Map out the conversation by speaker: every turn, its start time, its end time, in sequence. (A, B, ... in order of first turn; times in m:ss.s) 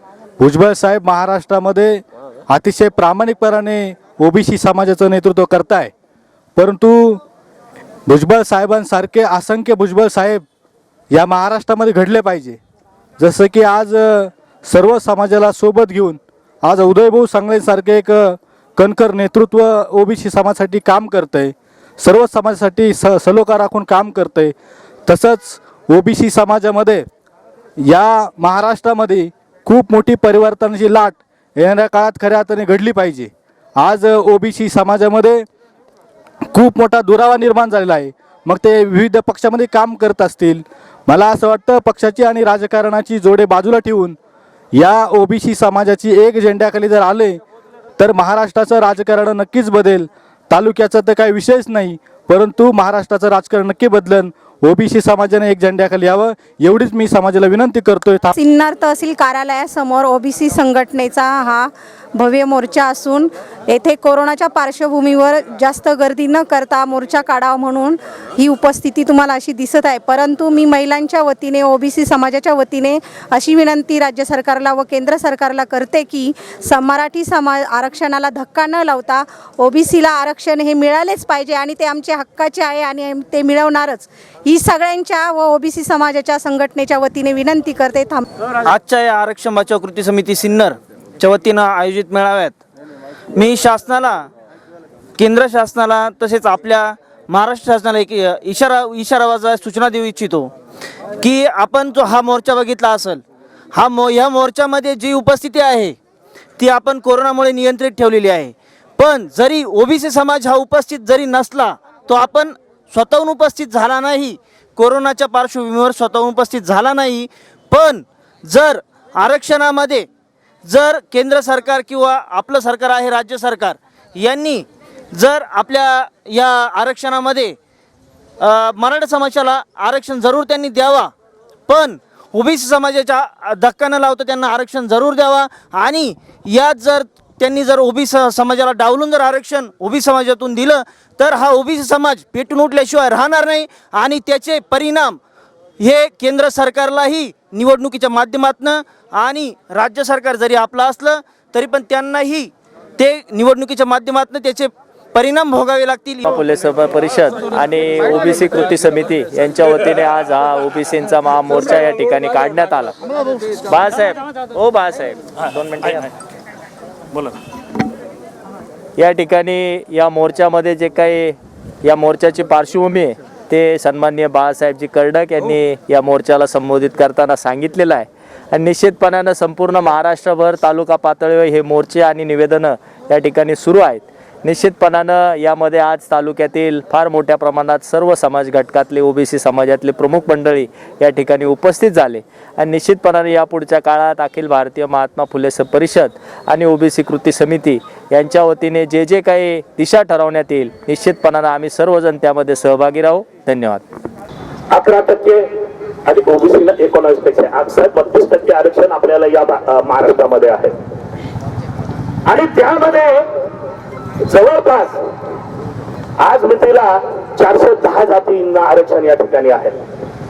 0:00.4-0:05.9 A
0:06.6-0:07.2 A
0:08.1-0:10.4 A
0:11.1-0:12.6 A
0:13.2-0:24.5 A
0:25.1-0:27.1 A
0:27.8-0:35.5 A
0:36.5-0:44.2 A
0:44.8-0:47.4 A
0:48.0-0:58.4 A
0:58.4-1:28.2 B
1:28.6-1:32.6 C
1:33.3-1:34.3 C
1:35.2-1:40.5 C
1:41.2-1:43.2 C
1:43.7-1:46.0 C
1:46.6-2:00.1 C
2:00.6-2:07.6 C
2:08.4-2:11.1 C
2:11.7-2:25.2 C
2:25.8-2:37.0 C
2:36.9-2:42.9 D
2:37.7-2:42.8 C
2:43.7-2:46.0 C
2:44.7-2:45.9 D
2:49.0-2:51.2 C
2:49.2-2:51.1 D
2:51.9-2:53.0 D
2:51.9-2:53.1 C
2:53.5-2:57.9 D
2:53.8-2:58.0 C
2:58.6-3:02.7 C
2:58.6-3:02.6 D
3:03.1-3:04.0 D
3:03.2-3:07.1 C
3:04.5-3:23.8 D
3:08.3-3:10.1 C
3:11.1-3:12.2 C
3:14.4-3:16.1 C
3:16.6-3:17.6 C
3:18.2-3:23.7 C
3:24.7-3:25.4 E
3:26.1-3:30.7 E
3:32.3-3:33.2 E
3:34.2-3:35.0 E
3:36.2-3:39.8 E